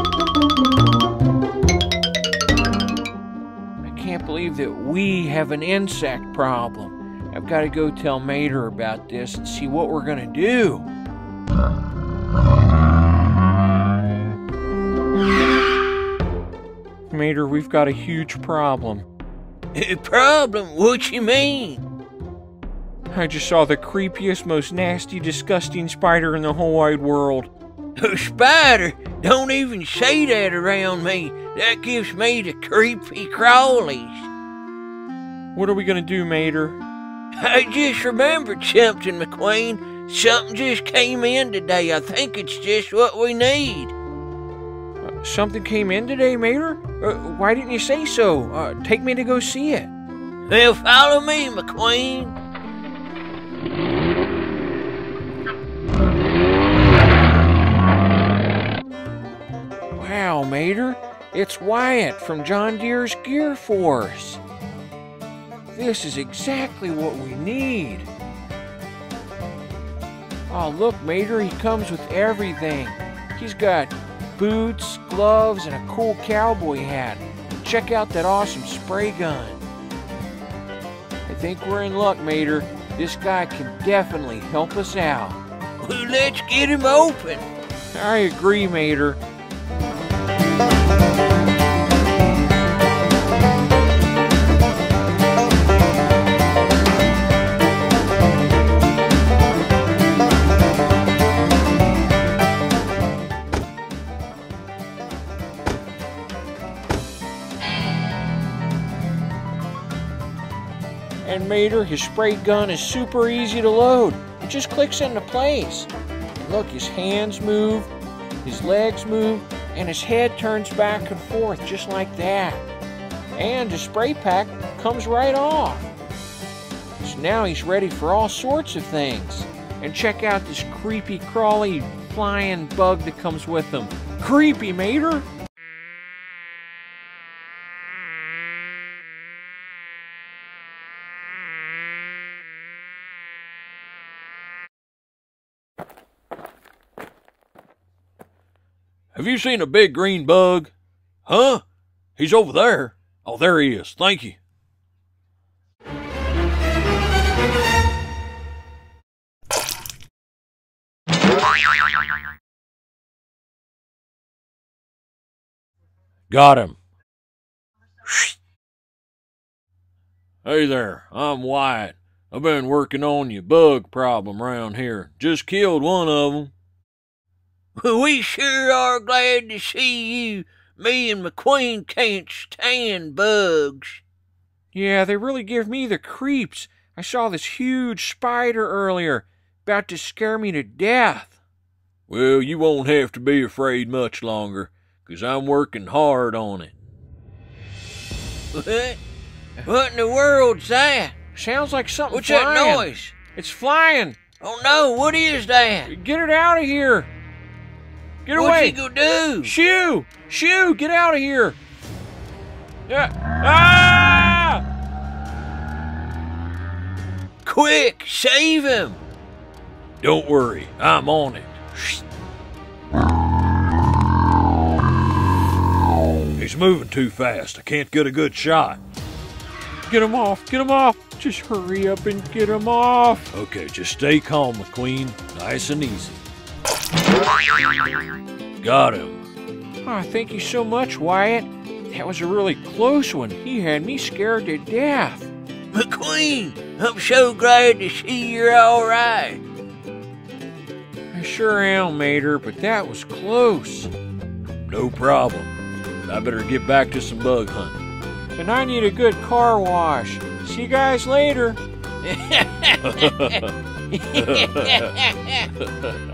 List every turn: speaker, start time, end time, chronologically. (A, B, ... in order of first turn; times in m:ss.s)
0:03.8-0:10.9 A
0:17.1-0:19.1 A
0:19.8-0:21.8 B
0:23.1-0:27.5 A
0:28.0-0:34.3 B
0:35.6-0:36.8 A
0:37.4-0:43.9 B
0:45.0-0:49.9 A
0:50.5-0:52.4 B
1:00.0-1:04.4 A
1:05.7-1:08.1 A
1:10.5-1:19.6 A
1:21.3-1:25.4 A
1:25.8-1:27.4 B
1:27.9-1:29.2 A
1:51.2-1:55.9 A
1:56.4-1:57.9 A
1:58.4-2:02.6 A
2:03.4-2:05.9 A
2:07.0-2:15.3 A
2:29.1-2:30.7 C
2:31.3-2:31.6 C
2:32.2-2:34.4 C
2:46.3-2:46.8 C
2:50.4-2:56.5 C
2:57.8-3:04.0 B
3:04.7-3:11.4 A
3:12.1-3:16.7 C
3:18.5-3:19.0 B
3:19.6-3:21.2 B
3:21.3-3:24.2 A
3:22.1-3:23.1 B
3:24.4-3:25.9 B
3:25.9-3:27.1 A
3:28.3-3:28.8 A
3:28.3-3:29.5 B
3:29.4-3:31.6 A
3:32.9-3:34.6 A
3:37.4-3:39.0 B
3:40.0-3:41.6 C
3:46.4-3:48.8 C
3:49.9-3:53.3 A
3:53.3-3:56.2 C
3:58.6-3:59.2 C
3:59.8-4:05.3 A
4:05.7-4:09.4 B
4:11.1-4:13.9 A
4:14.7-4:15.5 C
4:16.1-4:17.8 C
4:18.4-4:21.6 A
4:22.1-4:23.4 B
4:22.8-4:23.5 C
4:23.9-4:25.5 B
4:24.1-4:24.9 C